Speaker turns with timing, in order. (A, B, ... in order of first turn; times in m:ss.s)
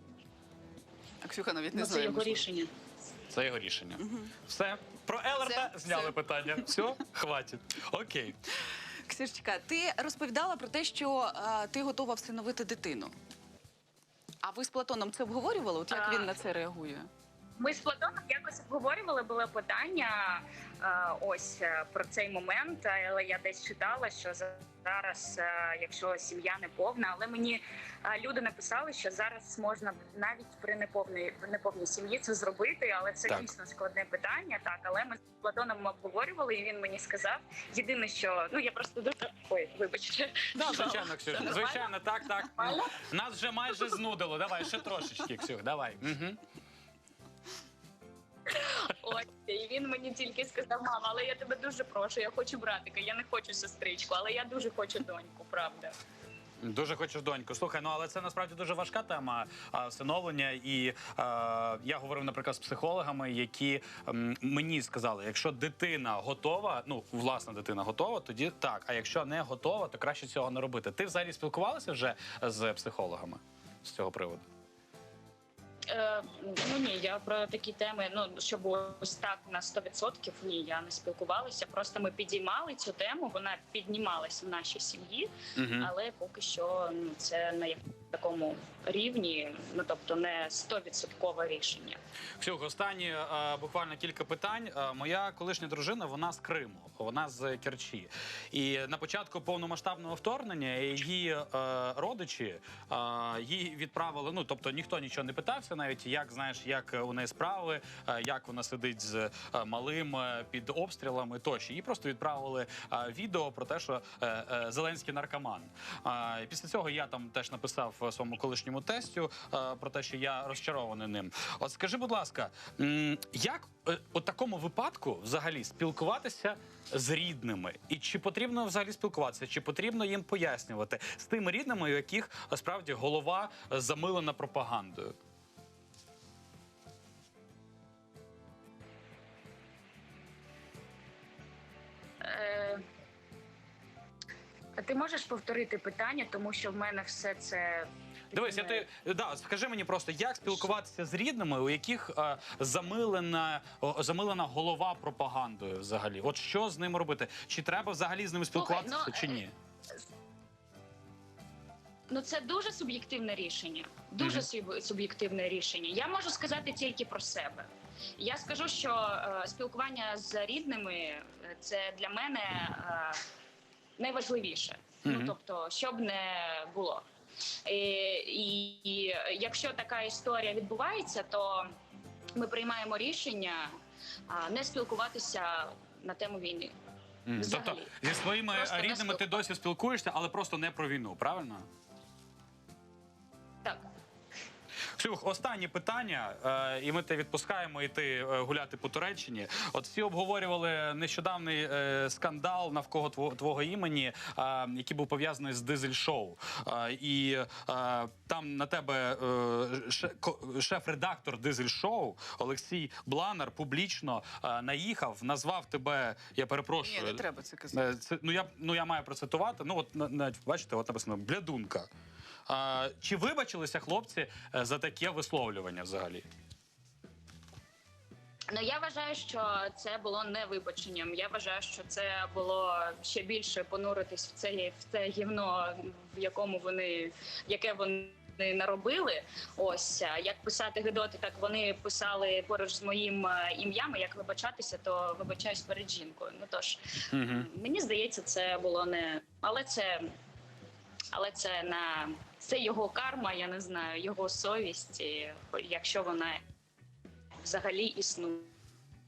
0:01.2-0:02.4 A
0:01.7-0:02.7 B
0:03.3-0:08.4 C
0:04.0-0:04.4 A
0:05.4-0:06.8 A
0:09.0-0:13.1 A
0:14.4-0:17.1 A
0:15.9-0:16.3 B
0:17.6-0:41.9 B
0:40.5-0:46.4 C
0:42.5-0:43.0 B
0:48.4-0:55.9 B
0:56.6-1:14.4 C
1:15.9-1:32.0 B
1:25.6-1:25.9 C
1:32.4-2:15.1 C
2:22.2-2:22.8 B
2:24.8-2:28.8 B
2:28.3-2:39.5 C
2:38.5-2:39.4 B
2:42.1-2:47.6 B
2:44.2-2:44.5 C
2:48.2-2:53.2 B
2:54.0-2:57.0 B
2:55.0-2:55.3 C
2:57.6-3:01.7 B
3:02.4-3:03.7 B
3:04.3-3:06.7 B
3:07.3-3:11.6 C
3:07.3-3:07.9 B
3:08.5-3:09.4 B
3:15.0-3:41.9 C
3:36.8-3:37.9 A
3:42.5-3:46.2 C
3:48.5-4:10.0 B
4:07.1-4:07.5 C
4:11.1-4:16.4 B
4:17.4-4:18.5 B